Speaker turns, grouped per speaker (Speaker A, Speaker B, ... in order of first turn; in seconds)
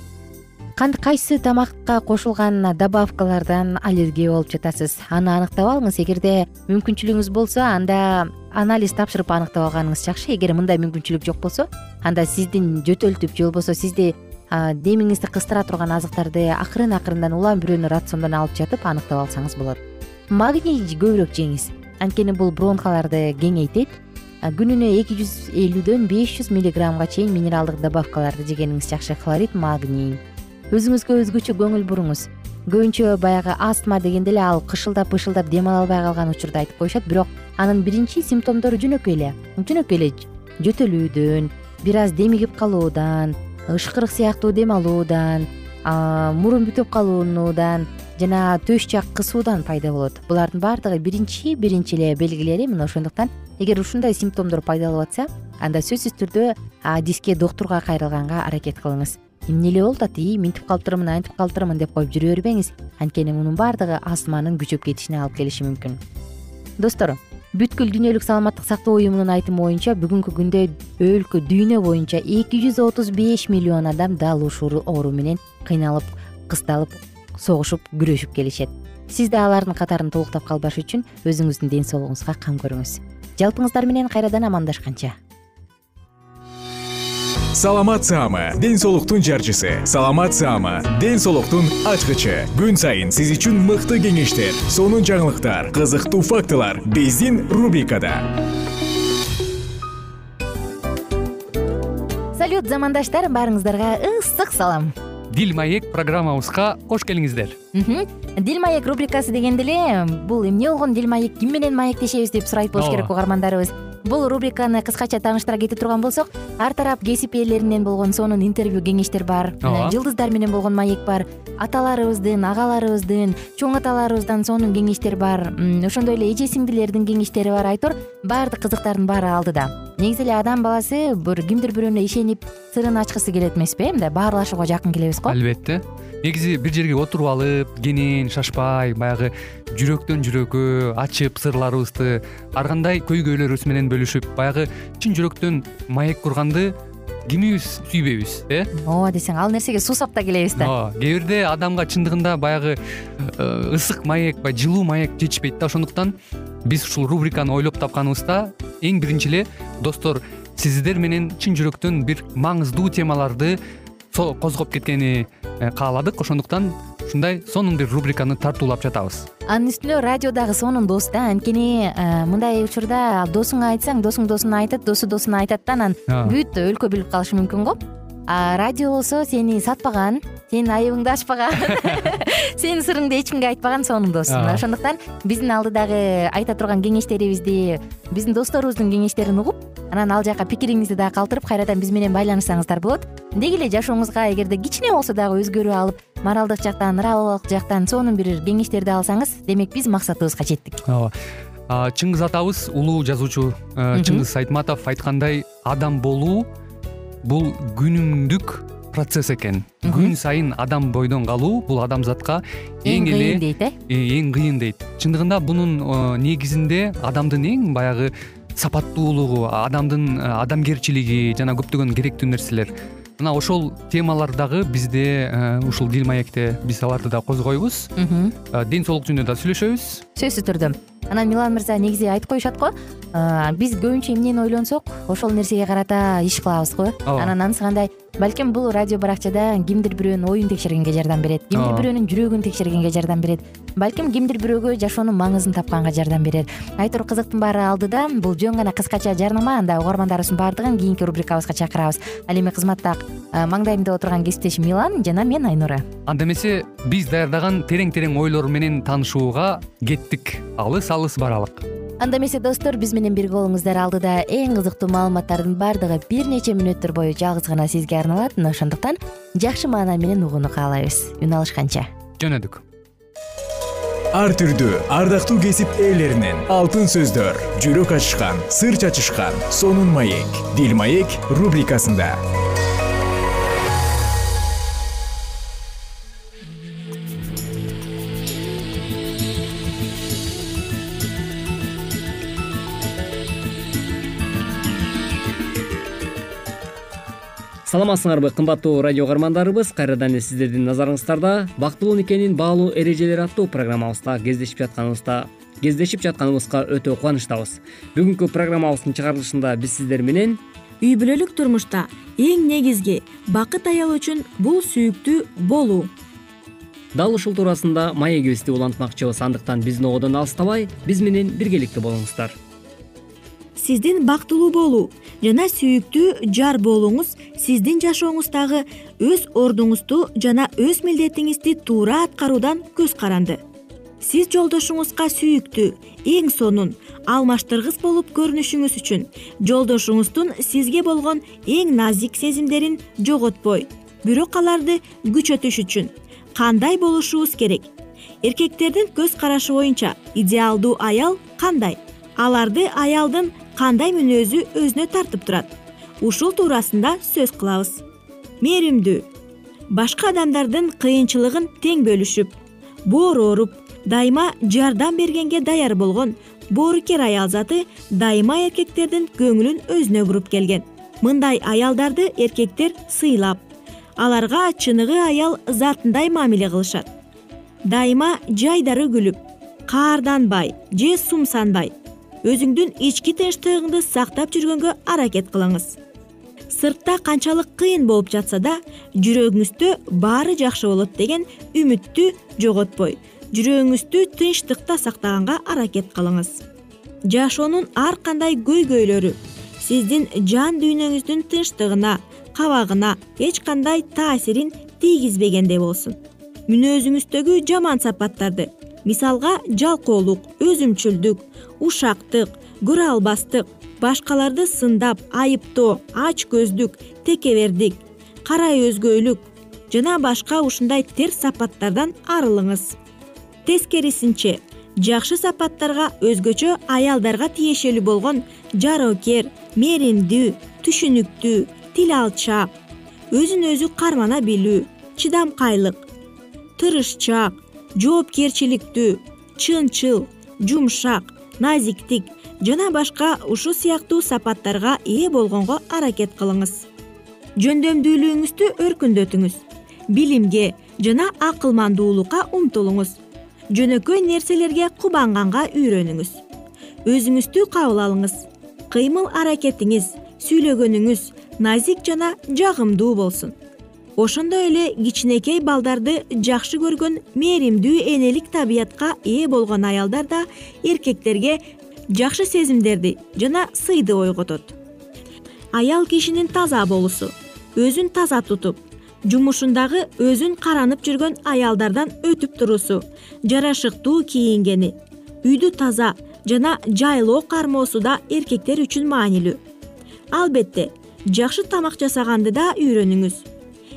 Speaker A: 0.8-66.0, 66.8-85.2, 102.3-104.9, 107.7-135.4, 148.8-150.7, 169.5-200.8, 203.9-204.2, 209.8-210.1, 212.8-213.7, 228.0-228.3, 230.2-255.9, 262.0-271.9
Speaker B: 87.5-98.3, 274.1-282.2
Speaker C: 105.3-107.6, 112.8-113.1, 119.6-120.0, 135.3-146.7, 147.3-148.7, 150.6-156.1, 156.7-163.6, 164.1-169.3, 176.1-176.4, 184.3-184.6, 200.9-201.1, 201.7-206.5, 207.2-227.9, 228.5-230.0, 237.1-237.3, 241.5-241.9, 256.1-261.6, 272.2-272.6
Speaker D: 297.6-310.4, 316.9-322.4
Speaker E: 310.8-315.9, 323.6-333.4, 334.0-347.7, 348.2-357.8, 358.4-359.1, 359.7-362.4, 362.9-373.4, 374.0-376.9, 377.7-385.8, 386.5-396.4, 397.1-422.8, 423.4-432.5, 433.1-435.9, 436.6-446.6, 447.4-453.0, 453.5-456.2, 456.9-463.4, 464.0-471.4, 471.9-474.5, 475.6-489.4, 490.1-493.2